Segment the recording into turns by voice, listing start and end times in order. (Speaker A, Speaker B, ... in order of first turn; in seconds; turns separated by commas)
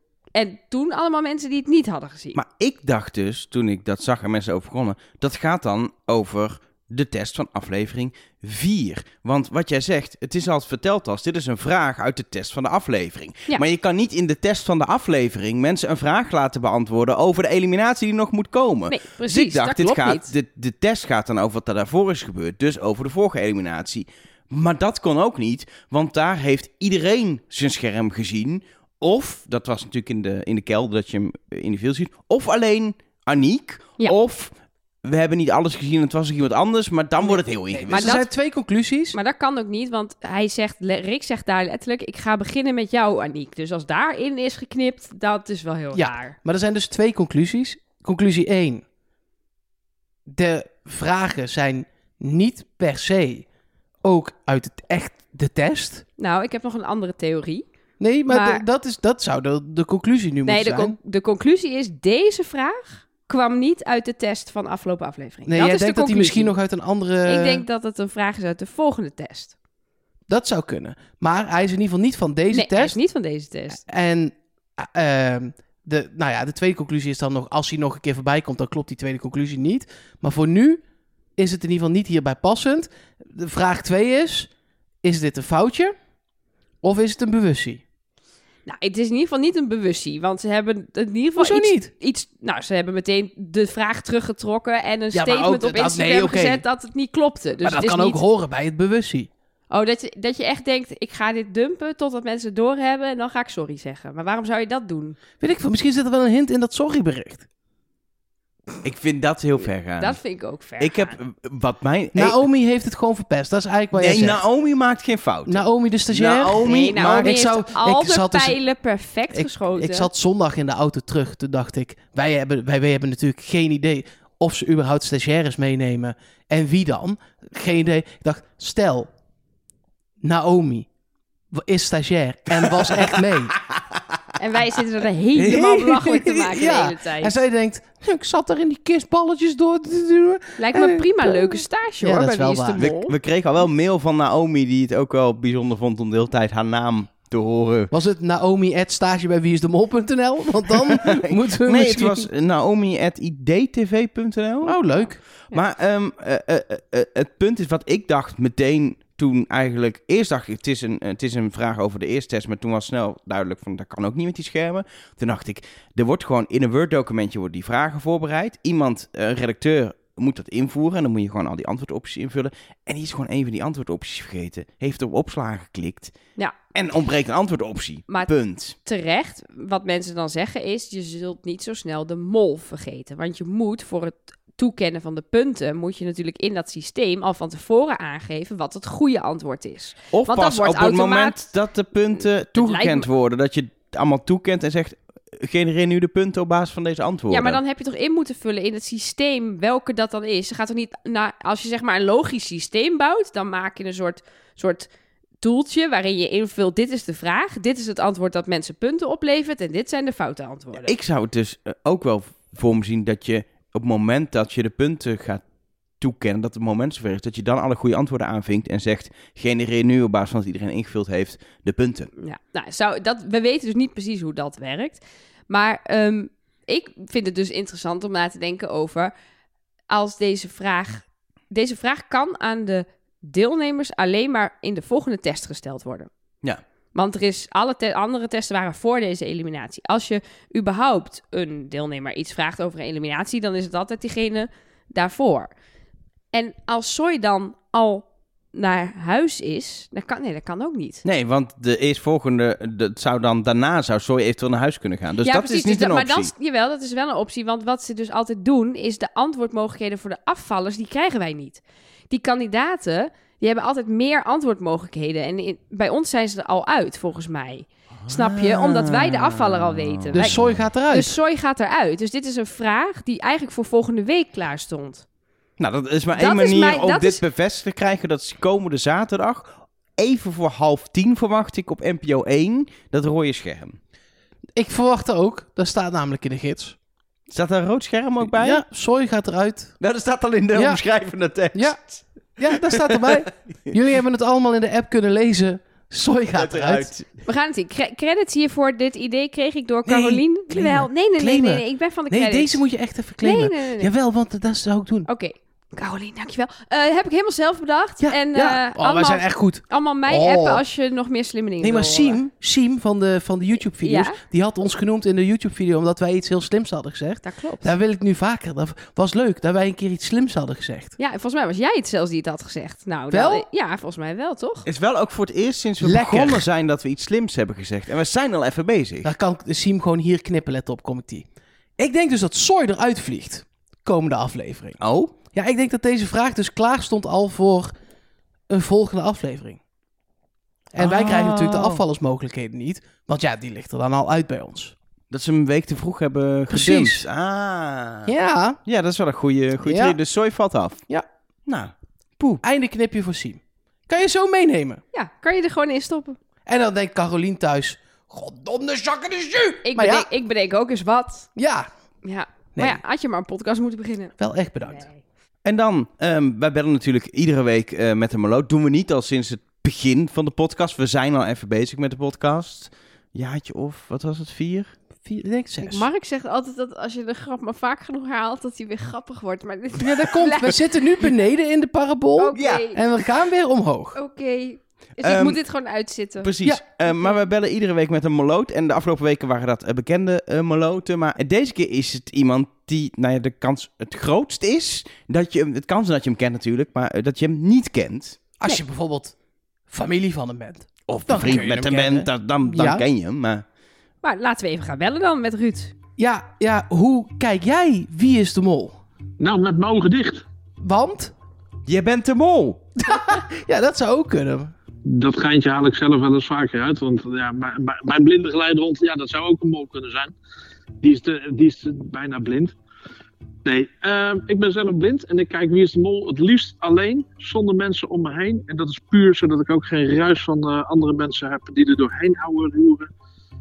Speaker A: 0.3-2.4, Speaker B: 2.4-34.5, Speaker A: 18.9-20.3, Speaker B: 35.0-38.1, Speaker C: 37.3-39.2, Speaker A: 37.9-38.3, Speaker A: 39.1-46.4, Speaker C: 45.9-48.9, Speaker C: 50.3-53.5, Speaker C: 54.0-56.0, Speaker A: 56.2-57.6, Speaker C: 58.0-61.0, Speaker A: 58.3-58.6, Speaker A: 60.5-66.5, Speaker C: 65.5-67.6, Speaker A: 67.2-69.5, Speaker C: 70.3-73.0, Speaker A: 72.5-73.8, Speaker C: 73.7-80.8, Speaker C: 81.4-84.5, Speaker C: 85.0-86.0, Speaker C: 86.8-87.8, Speaker A: 88.7-98.2, Speaker C: 91.4-91.9, Speaker C: 95.1-96.6, Speaker C: 97.6-99.3, Speaker A: 99.7-105.2, Speaker C: 105.4-107.5, Speaker B: 108.8-110.2, Speaker A: 110.0-111.2, Speaker B: 110.8-112.4, Speaker C: 112.1-114.4, Speaker B: 113.9-117.4, Speaker C: 115.5-118.6, Speaker A: 116.6-120.1, Speaker C: 119.3-129.1, Speaker C: 130.2-130.9, Speaker C: 131.5-133.6, Speaker A: 134.4-137.4, Speaker C: 135.3-142.9, Speaker A: 140.6-143.1, Speaker B: 142.8-147.9, Speaker C: 147.9-152.3, Speaker B: 150.8-154.8, Speaker C: 154.6-155.2, Speaker B: 155.5-176.1, Speaker B: 176.7-178.8, Speaker A: 178.8-191.4, Speaker B: 190.1-197.6, Speaker A: 192.6-193.1, Speaker A: 197.3-204.9, Speaker A: 205.4-210.9, Speaker B: 210.8-215.4, Speaker B: 216.0-222.1, Speaker A: 222.2-229.1, Speaker A: 229.9-236.1, Speaker A: 236.9-245.5, Speaker A: 246.3-251.0, Speaker B: 251.1-256.3, Speaker A: 255.2-270.4, Speaker B: 268.1-270.6, Speaker C: 270.1-271.1, Speaker A: 270.9-275.0, Speaker B: 275.6-283.8, Speaker A: 276.1-277.2, Speaker C: 284.6-286.8, Speaker B: 287.3-288.6, Speaker C: 288.2-289.8, Speaker B: 289.8-293.7, Speaker C: 290.5-290.8, Speaker C: 291.5-291.8, Speaker C: 292.4-296.9, Speaker B: 296.3-297.1, Speaker A: 297.3-302.6, Speaker C: 299.9-305.1, Speaker A: 303.2-303.9, Speaker A: 305.1-312.2, Speaker C: 308.0-310.6, Speaker C: 311.6-320.9, Speaker A: 313.8-314.2, Speaker A: 317.2-317.7, Speaker A: 321.0-324.7, Speaker C: 323.1-323.5, Speaker B: 324.6-329.1, Speaker C: 325.8-326.4, Speaker C: 329.0-331.3, Speaker C: 331.8-334.8, Speaker B: 334.8-335.1, Speaker C: 335.3-337.7, Speaker C: 338.5-339.6, Speaker C: 340.7-344.8, Speaker B: 340.8-341.8, Speaker B: 345.1-348.1, Speaker C: 346.5-347.1, Speaker C: 348.1-348.6, Speaker B: 348.6-350.8, Speaker C: 349.6-350.0, Speaker B: 351.5-352.4, Speaker C: 352.4-354.8, Speaker A: 354.9-356.2, Speaker C: 356.5-360.1, Speaker A: 359.6-361.3, Speaker C: 361.4-361.7, Speaker A: 362.1-365.0, Speaker C: 362.6-362.8, Speaker C: 364.2-364.9, Speaker B: 365.4-374.7, Speaker C: 375.1-375.9, Speaker A: 375.6-381.1, Speaker C: 379.8-384.0, Speaker A: 382.2-382.8, Speaker A: 384.0-386.3, Speaker B: 385.0-385.4, Speaker B: 386.2-398.2, Speaker C: 398.4-399.1, Speaker C: 399.7-402.8, Speaker B: 400.9-403.4, Speaker A: 404.0-405.7, Speaker C: 406.0-408.8, Speaker D: 409.2-410.2, Speaker C: 410.6-411.1, Speaker B: 411.7-412.6, Speaker C: 412.8-414.5, Speaker D: 414.9-420.1, Speaker D: 420.8-422.6, Speaker D: 423.4-432.9